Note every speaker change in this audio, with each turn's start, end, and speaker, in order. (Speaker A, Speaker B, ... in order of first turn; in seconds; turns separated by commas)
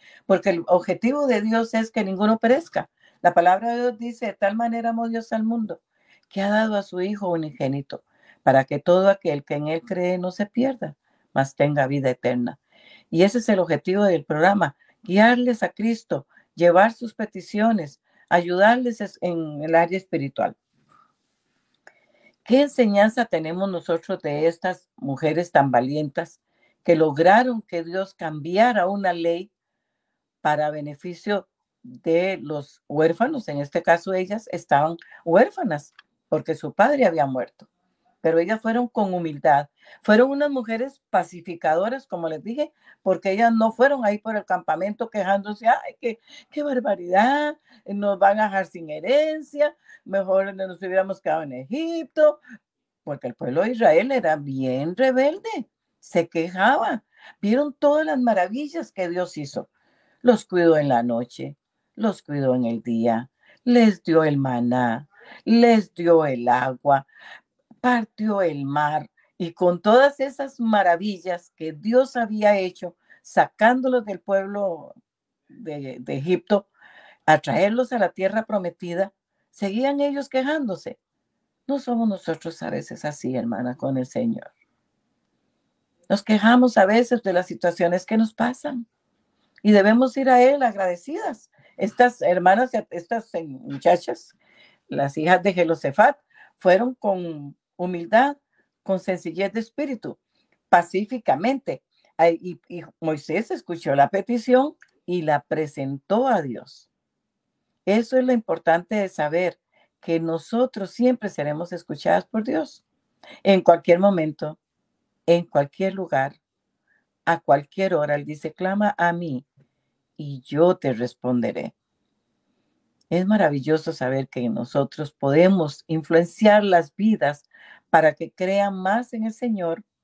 Speaker A: 0.3-12.6, Speaker A: 13.1-20.6, Speaker A: 22.4-29.5, Speaker A: 30.4-37.7, Speaker A: 38.2-52.4, Speaker A: 53.0-59.7, Speaker A: 60.2-67.0, Speaker A: 67.8-75.0, Speaker A: 75.5-76.7, Speaker A: 77.3-81.0, Speaker A: 81.7-84.5, Speaker A: 86.1-88.8, Speaker A: 89.6-94.3, Speaker A: 94.9-100.2, Speaker A: 100.7-106.9, Speaker A: 107.8-112.8, Speaker A: 113.4-114.6, Speaker A: 115.3-116.4, Speaker A: 117.3-119.4, Speaker A: 120.2-121.7, Speaker A: 123.1-129.8